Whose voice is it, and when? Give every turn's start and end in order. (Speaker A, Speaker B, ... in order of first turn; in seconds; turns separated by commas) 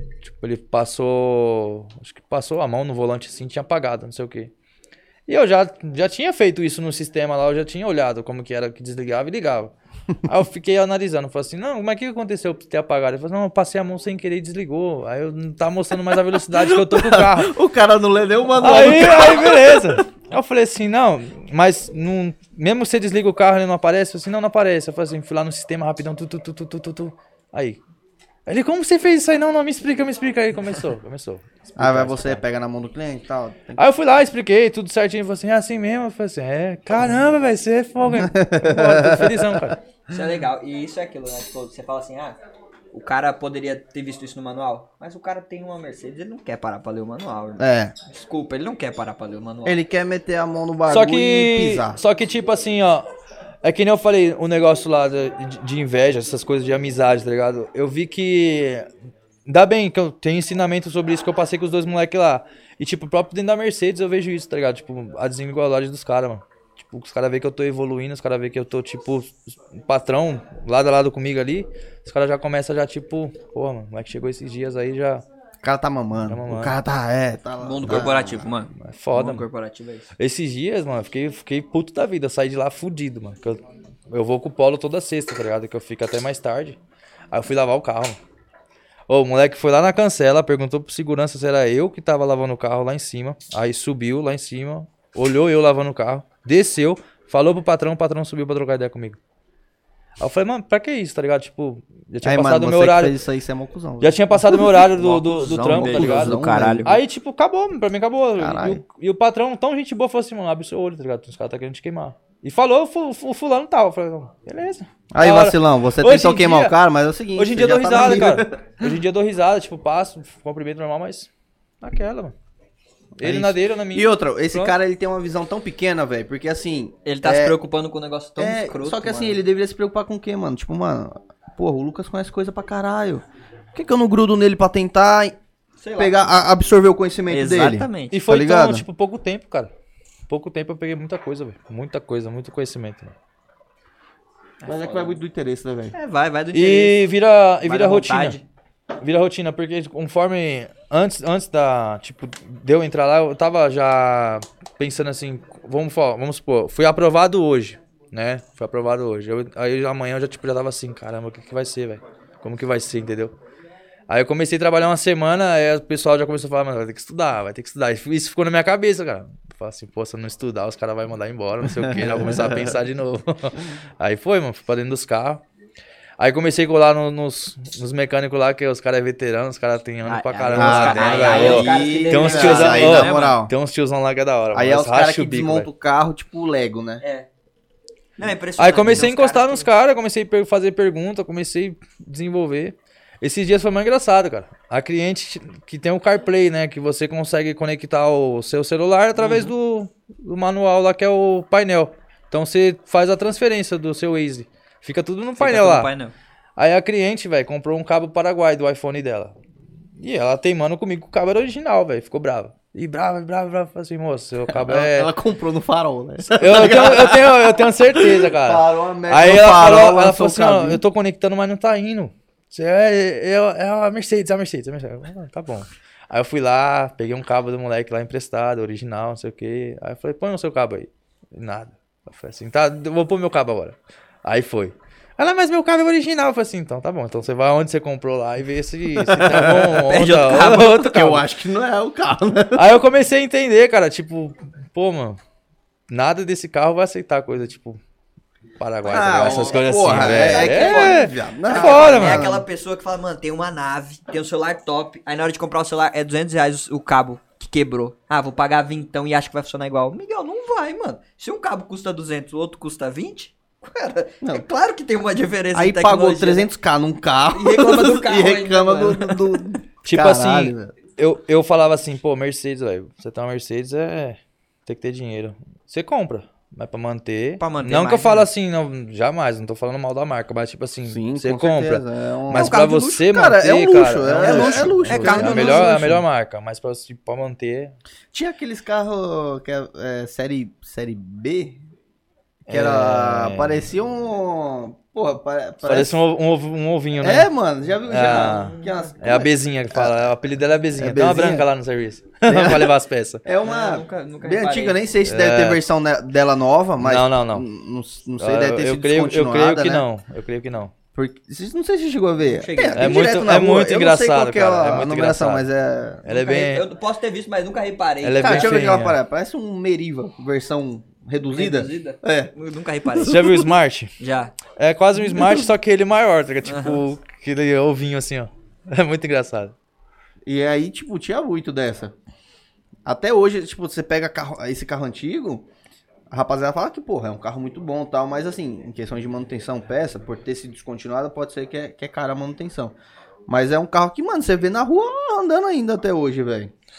Speaker A: 0.2-4.5, Speaker A: 5.3-9.7, Speaker A: 10.2-17.6, Speaker B: 16.3-20.0, Speaker A: 18.6-27.8, Speaker A: 28.4-32.4, Speaker B: 31.8-33.8, Speaker A: 33.8-39.8, Speaker B: 38.0-39.8, Speaker C: 40.1-42.4, Speaker C: 42.9-49.8, Speaker B: 47.6-47.9, Speaker B: 49.6-52.0, Speaker A: 50.9-53.1, Speaker A: 53.6-58.9, Speaker A: 59.5-75.2, Speaker B: 75.6-78.5, Speaker A: 76.2-76.7, Speaker C: 77.6-80.1, Speaker A: 78.8-79.4, Speaker A: 80.2-86.8, Speaker A: 87.3-88.2, Speaker A: 89.1-99.2, Speaker A: 100.2-103.2, Speaker B: 102.2-107.0, Speaker A: 104.0-116.7, Speaker C: 105.7-106.9, Speaker B: 108.4-108.8, Speaker B: 115.1-118.9, Speaker A: 117.3-121.3, Speaker A: 121.8-122.3, Speaker B: 123.2-127.5, Speaker A: 123.2-124.7, Speaker C: 127.0-129.4, Speaker B: 128.4-135.3, Speaker C: 135.8-136.2, Speaker B: 136.0-138.8, Speaker C: 137.3-138.2, Speaker A: 138.1-139.7, Speaker A: 140.3-143.1, Speaker C: 144.6-145.2, Speaker B: 144.6-145.9, Speaker C: 145.9-147.0, Speaker A: 146.5-148.4, Speaker C: 147.6-148.4, Speaker A: 149.0-163.3, Speaker A: 164.1-175.4, Speaker B: 171.7-172.7, Speaker A: 176.2-185.7, Speaker C: 180.1-183.4, Speaker B: 180.5-183.5, Speaker B: 184.5-187.0, Speaker C: 187.0-187.3, Speaker C: 188.2-189.7, Speaker A: 188.6-205.9, Speaker C: 199.2-199.5, Speaker C: 205.4-206.1, Speaker A: 206.6-209.3, Speaker A: 210.0-215.1, Speaker B: 214.5-220.8, Speaker A: 216.3-241.3, Speaker B: 238.9-239.8, Speaker C: 239.8-240.9, Speaker B: 240.6-242.8, Speaker A: 242.5-245.2, Speaker A: 245.9-247.8, Speaker A: 248.6-252.3, Speaker B: 248.8-252.4, Speaker C: 249.1-266.5, Speaker B: 265.5-270.7, Speaker C: 267.3-269.6, Speaker A: 269.8-287.7, Speaker C: 277.4-278.3, Speaker B: 280.9-286.0, Speaker C: 282.3-283.0, Speaker C: 284.2-285.9, Speaker B: 288.1-291.6, Speaker A: 292.5-293.7, Speaker B: 292.5-296.0, Speaker A: 295.6-297.3, Speaker B: 297.0-300.1, Speaker A: 297.9-303.2, Speaker C: 298.1-298.9, Speaker B: 300.7-301.5, Speaker B: 302.2-309.9, Speaker C: 303.4-304.8, Speaker A: 305.0-305.6, Speaker A: 306.8-307.4, Speaker A: 308.2-310.7, Speaker B: 310.9-316.0, Speaker C: 312.2-313.1, Speaker A: 312.7-315.4, Speaker A: 316.0-316.6, Speaker C: 316.1-318.6, Speaker A: 318.0-319.0, Speaker B: 318.2-322.3, Speaker C: 321.3-323.3, Speaker B: 322.9-323.5, Speaker A: 323.1-323.9, Speaker C: 324.0-324.3, Speaker A: 324.5-329.5, Speaker B: 325.1-325.4, Speaker C: 326.4-326.8, Speaker B: 330.2-331.9, Speaker B: 332.8-335.4, Speaker B: 336.1-342.7, Speaker B: 343.3-346.5